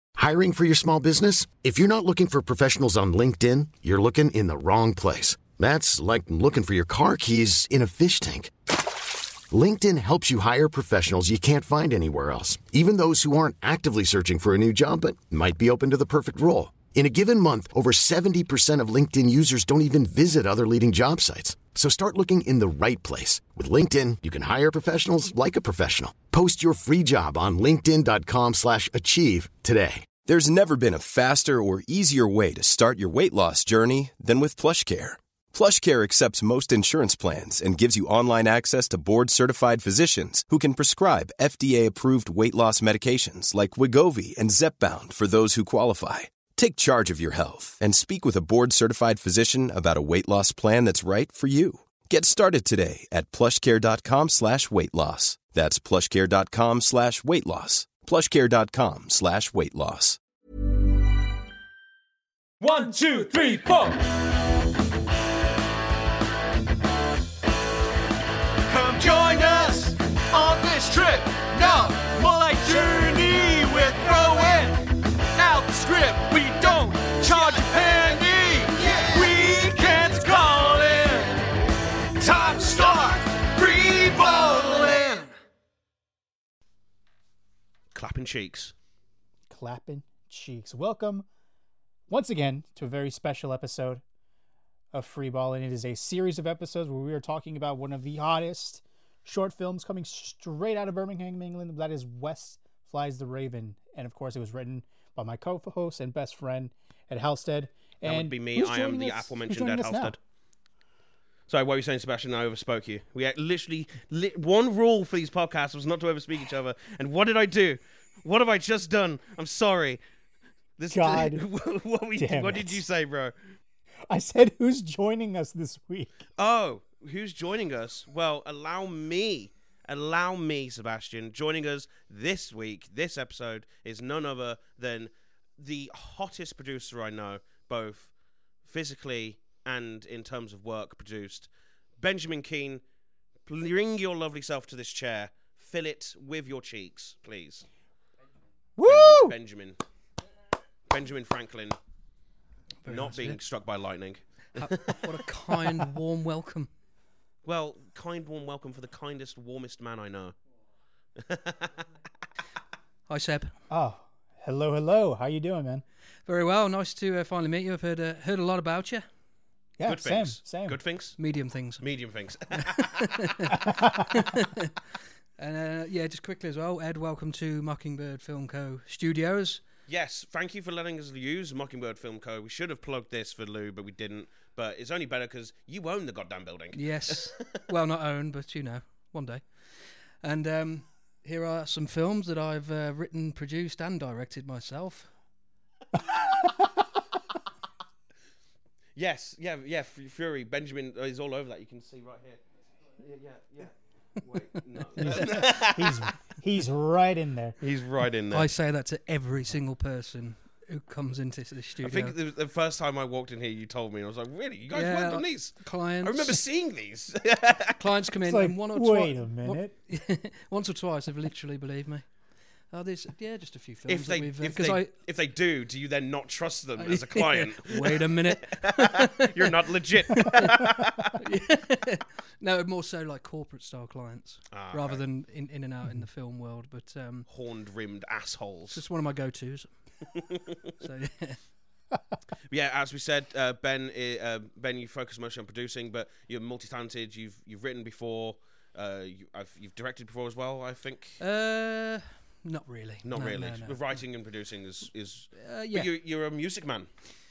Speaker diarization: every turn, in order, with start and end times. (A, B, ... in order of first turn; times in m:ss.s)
0:00.2-0:08.5 A
0:09.5-0:30.1 A
0:30.2-1:00.2 B
1:02.6-1:04.0 C
1:08.7-1:21.5 C
1:22.2-1:25.3 C
1:27.9-1:28.7 D
1:29.5-1:31.2 E
1:32.1-1:34.0 E
1:34.9-1:50.2 E
1:48.0-1:50.2 D
1:51.5-2:00.0 D
2:00.8-2:03.3 D
2:00.9-2:01.4 E
2:02.2-2:02.8 E
2:04.1-2:06.2 E
2:06.4-2:18.1 D
2:18.6-2:22.8 D
2:23.5-2:27.6 D
2:28.8-2:29.3 E
2:28.8-2:29.8 D
2:30.9-2:31.8 D
2:32.8-2:33.4 F
2:32.8-2:35.1 D
2:34.6-2:36.7 F
2:37.4-2:40.3 D
2:41.2-2:41.8 D
2:43.1-2:43.5 F
2:43.7-2:45.8 E
2:46.2-2:49.0 F
2:49.8-2:50.8 E
2:49.8-2:51.2 D
2:51.2-2:51.8 F
2:51.8-2:53.1 D
2:52.5-2:54.7 F
2:53.7-2:53.9 E
2:55.4-2:59.6 F
2:59.9-3:07.6 D
3:06.7-3:15.1 F
3:19.0-3:22.4 D
3:23.0-3:26.1 D
3:25.0-3:27.6 E
3:25.1-3:25.4 F
3:27.6-3:28.5 D
3:28.3-3:32.1 F
3:31.8-3:38.0 D
3:34.7-3:36.4 F
3:37.8-3:42.2 F
3:38.2-3:39.7 E
3:42.7-3:44.9 F
3:43.9-3:51.1 D
3:46.8-3:49.5 F
3:50.1-3:50.6 F
3:51.2-3:57.3 F
3:54.5-3:55.0 D
3:57.3-3:58.8 D
3:58.7-3:59.7 F
4:00.8-4:01.4 F
4:02.5-4:11.2 D
4:11.2-4:14.0 F
4:13.0-4:16.9 D
4:15.3-4:15.9 F